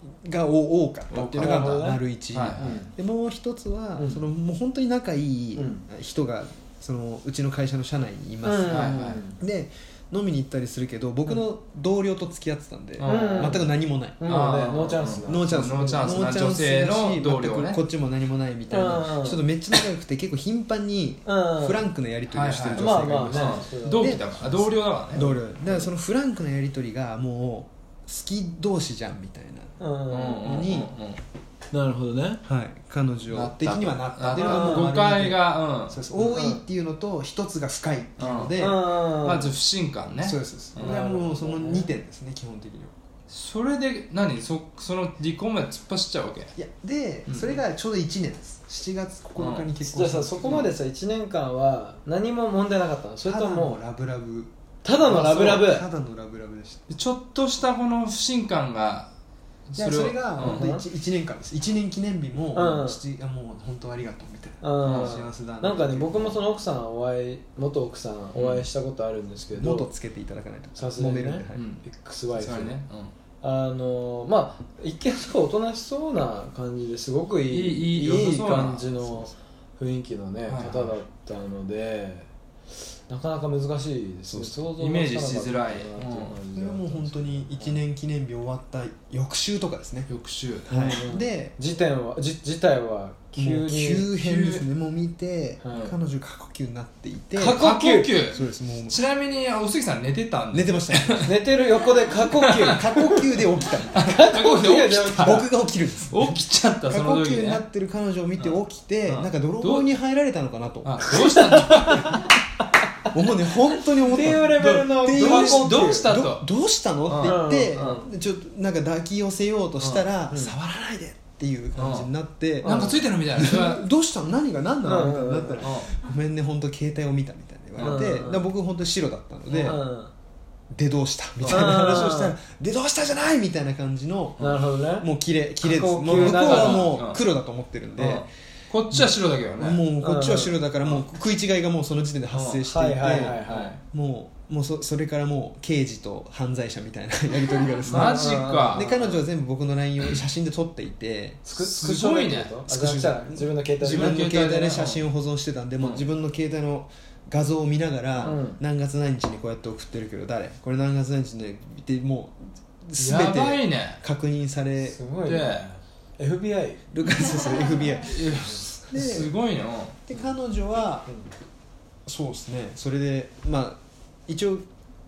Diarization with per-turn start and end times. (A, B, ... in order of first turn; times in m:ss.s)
0:00.1-0:14.2 A
0:01.1-0:01.6 B
0:01.2-0:02.0 C
0:02.3-0:02.7 B
0:02.6-0:02.9 C
0:04.0-0:04.2 C
0:05.6-0:05.8 C
0:08.4-0:09.4 C
0:08.7-0:09.2 B
0:13.0-0:13.6 B
0:13.0-0:13.6 C
0:14.2-0:16.1 C
0:14.2-0:17.8 B
0:15.3-0:29.7 A
0:18.7-0:19.4 C
0:21.2-0:21.8 C
0:22.3-0:25.2 B
0:22.8-0:24.2 C
0:25.2-0:25.9 C
0:29.8-0:30.5 C
0:30.1-0:31.2 B
0:30.4-0:30.9 A
0:31.7-0:32.4 C
0:32.5-0:38.8 A
0:33.3-0:36.0 B
0:34.3-0:34.9 C
0:36.2-0:36.6 C
0:38.2-0:38.6 B
0:38.6-0:39.5 C
0:39.2-0:41.1 B
0:40.1-0:42.9 A
0:40.8-0:41.9 C
0:43.3-0:46.5 B
0:46.6-0:50.7 A
0:47.3-0:47.6 B
0:49.4-0:49.7 B
0:49.8-0:53.8 C
0:53.3-0:56.8 A
0:54.8-0:55.9 C
0:56.9-0:59.1 B
0:59.7-1:00.6 B
0:59.8-1:06.4 A
1:00.4-1:00.8 C
1:02.5-1:03.0 C
1:04.6-1:09.9 C
1:04.8-1:05.1 B
1:08.4-1:08.7 B
1:09.6-1:11.7 A
1:10.8-1:12.8 C
1:11.5-1:11.8 B
1:12.4-1:13.1 B
1:13.4-1:22.3 C
1:17.5-1:19.0 B
1:20.5-1:20.9 B
1:23.1-1:27.8 C
1:24.8-1:26.4 B
1:26.5-1:30.1 A
1:30.1-1:31.0 B
1:30.7-1:31.6 A
1:30.9-1:34.1 C
1:33.4-1:37.7 A
1:34.2-1:34.6 B
1:35.6-1:35.9 C
1:37.4-1:38.1 C
1:37.5-1:41.3 B
1:38.3-1:39.0 A
1:40.5-1:41.4 A
1:41.2-1:43.2 C
1:42.3-1:42.8 B
1:42.7-1:44.2 A
1:43.9-1:45.5 B
1:44.0-1:45.5 C
1:45.2-1:46.3 A
1:46.1-1:47.6 B
1:46.9-1:51.1 A
1:48.4-1:49.9 B
1:50.8-1:52.3 B
1:51.1-1:52.8 C
1:53.1-2:09.8 A
1:54.0-1:56.1 C
1:54.5-1:56.5 B
1:57.1-1:58.0 B
1:57.2-1:58.1 C
1:59.8-2:00.0 B
2:01.8-2:02.1 B
2:02.6-2:03.9 B
2:02.6-2:03.0 C
2:04.8-2:05.7 C
2:05.6-2:05.9 B
2:07.8-2:08.0 B
2:07.8-2:08.5 C
2:09.5-2:09.8 B
2:09.6-2:10.1 C
2:10.7-2:14.4 A
2:11.4-2:11.9 B
2:11.5-2:12.4 C
2:14.4-2:15.1 C
2:15.0-2:18.3 A
2:15.6-2:16.9 C
2:16.1-2:17.2 B
2:18.0-2:19.8 B
2:18.9-2:31.4 A
2:20.0-2:20.6 C
2:22.3-2:22.6 B
2:22.6-2:23.8 C
2:23.5-2:23.8 B
2:27.9-2:28.9 B
2:27.9-2:29.2 C
2:31.5-2:34.3 C
2:31.6-2:32.6 B
2:32.7-2:45.0 A
2:33.8-2:35.0 B
2:38.2-2:38.6 C
2:43.0-2:44.0 B
2:44.8-2:46.8 C
2:45.2-2:45.7 B
2:46.9-2:48.3 A
2:48.0-2:50.0 B
2:48.9-2:49.3 A
2:50.1-2:51.1 A
2:52.1-2:54.7 A